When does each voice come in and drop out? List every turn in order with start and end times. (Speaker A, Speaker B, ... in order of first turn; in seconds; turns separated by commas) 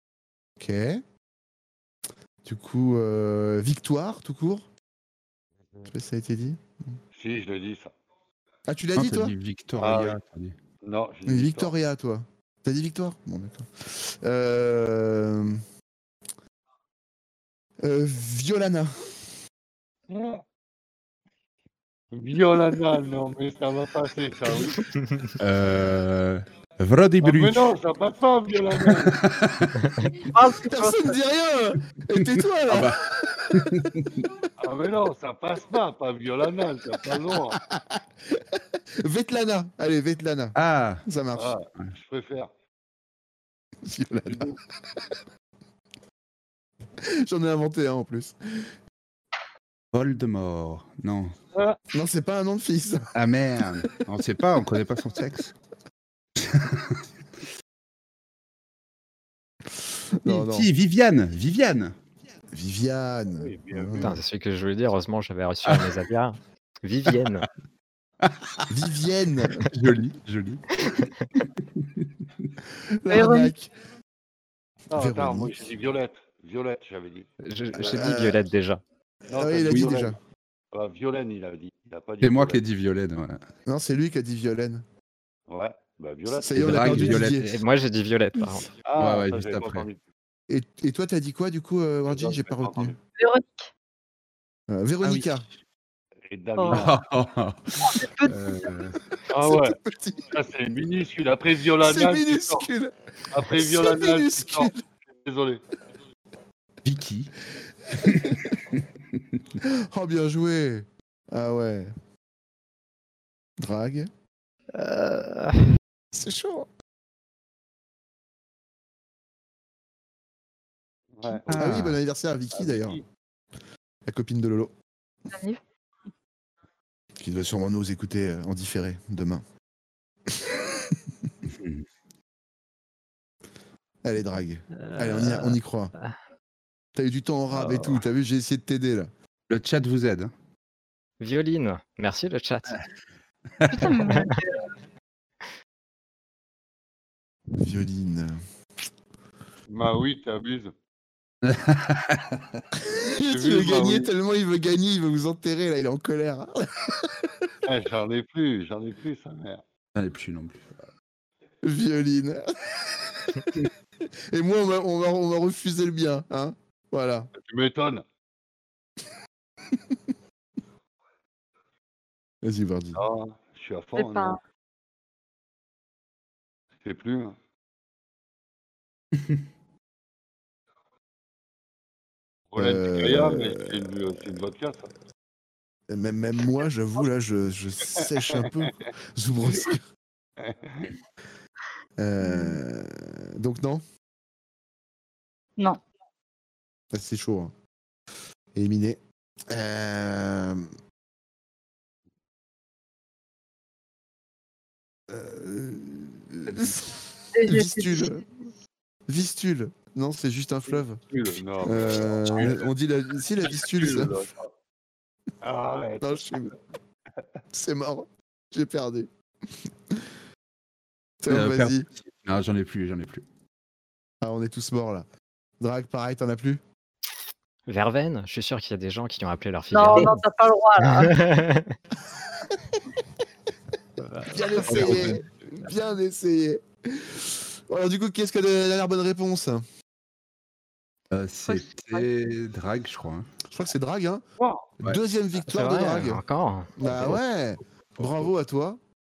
Speaker A: 0.6-1.0, Speaker A: 2.4-4.7, Speaker A: 5.9-7.0, Speaker B: 7.1-7.9, Speaker A: 8.7-9.3, Speaker C: 8.9-10.6, Speaker B: 9.8-10.2, Speaker B: 10.8-11.7, Speaker A: 11.2-15.6, Speaker A: 17.8-19.4, Speaker B: 20.1-20.4, Speaker B: 22.1-24.8, Speaker C: 25.4-27.7, Speaker B: 27.2-29.1, Speaker C: 28.8-29.9, Speaker D: 30.3-31.1, Speaker A: 30.6-34.4, Speaker C: 32.2-34.2, Speaker B: 34.6-37.6, Speaker A: 37.5-41.5, Speaker C: 40.5-41.0, Speaker B: 41.3-42.5, Speaker A: 43.8-45.0, Speaker B: 44.2-44.6, Speaker A: 47.0-48.7, Speaker C: 49.9-51.4, Speaker B: 51.5-51.8, Speaker A: 51.9-53.1, Speaker C: 53.1-55.5, Speaker C: 56.4-57.0, Speaker A: 59.8-60.7, Speaker C: 60.2-62.0, Speaker A: 62.5-64.2, Speaker B: 63.4-64.2, Speaker E: 64.0-67.5, Speaker C: 65.7-65.9, Speaker C: 68.2-68.7, Speaker A: 68.7-69.7, Speaker C: 69.6-71.1, Speaker C: 71.8-72.5, Speaker A: 72.9-73.7, Speaker D: 73.1-73.5, Speaker B: 74.9-77.3, Speaker A: 74.9-75.6, Speaker E: 77.4-78.8, Speaker A: 77.8-78.4, Speaker B: 79.3-80.2, Speaker A: 79.3-80.2, Speaker C: 79.6-80.0, Speaker B: 80.7-82.6, Speaker C: 82.2-83.4, Speaker A: 83.7-84.8, Speaker B: 85.5-86.9, Speaker A: 86.4-87.5, Speaker C: 86.5-87.6, Speaker E: 86.8-88.7, Speaker B: 88.8-90.0, Speaker C: 89.0-89.9, Speaker A: 90.5-93.0, Speaker B: 92.1-92.9, Speaker D: 93.2-93.7, Speaker A: 94.7-95.5, Speaker C: 95.0-95.3, Speaker B: 96.2-97.0, Speaker D: 96.5-96.9, Speaker C: 96.7-99.0, Speaker D: 97.8-98.3, Speaker B: 99.3-99.8, Speaker A: 99.3-100.3, Speaker B: 100.3-102.7, Speaker A: 101.8-104.8, Speaker B: 103.3-105.6, Speaker C: 106.8-107.3, Speaker C: 108.0-108.8, Speaker A: 108.0-108.5, Speaker A: 109.6-111.9, Speaker A: 113.6-114.1, Speaker E: 114.7-115.7, Speaker A: 116.1-116.7, Speaker B: 121.2-121.5, Speaker C: 121.5-122.0, Speaker A: 121.5-123.0, Speaker B: 122.5-123.0, Speaker A: 124.0-124.7, Speaker D: 125.3-125.6, Speaker A: 127.2-129.4, Speaker A: 130.3-130.9, Speaker C: 131.5-131.8, Speaker A: 134.0-135.9, Speaker E: 134.8-136.2, Speaker A: 136.9-139.1, Speaker C: 139.5-140.3, Speaker E: 141.2-142.8, Speaker C: 143.6-143.9, Speaker D: 143.7-144.7, Speaker E: 143.9-144.3, Speaker A: 147.5-148.4, Speaker B: 149.7-150.7, Speaker C: 151.4-152.6, Speaker A: 152.9-157.5, Speaker B: 153.2-154.1, Speaker B: 157.6-159.6, Speaker C: 159.9-160.8, Speaker A: 161.6-167.3, Speaker B: 167.3-168.0, Speaker A: 172.4-173.0, Speaker B: 172.9-174.4, Speaker D: 173.9-174.4, Speaker B: 176.8-177.3, Speaker B: 182.5-184.9, Speaker A: 182.6-183.9, Speaker A: 185.9-189.8, Speaker B: 188.2-188.9, Speaker B: 190.4-190.9, Speaker A: 192.0-193.8, Speaker D: 192.2-192.6, Speaker A: 196.9-197.5, Speaker A: 198.5-200.7, Speaker A: 205.1-208.2, Speaker D: 207.3-208.1, Speaker A: 209.1-211.0, Speaker B: 210.7-212.7, Speaker A: 211.6-214.2, Speaker B: 213.4-214.5, Speaker B: 215.4-216.4, Speaker A: 216.0-216.6, Speaker A: 217.5-220.1, Speaker A: 221.2-221.9, Speaker C: 221.3-223.2, Speaker A: 224.2-225.1, Speaker A: 225.6-226.6, Speaker E: 227.7-230.2, Speaker D: 229.7-231.2, Speaker E: 230.8-231.8, Speaker A: 234.2-239.6, Speaker C: 234.7-235.2, Speaker B: 234.7-235.2, Speaker C: 241.1-243.3, Speaker D: 241.4-242.1, Speaker A: 243.5-244.2, Speaker B: 244.4-244.7, Speaker A: 244.8-246.2, Speaker E: 245.5-247.2, Speaker A: 246.8-248.8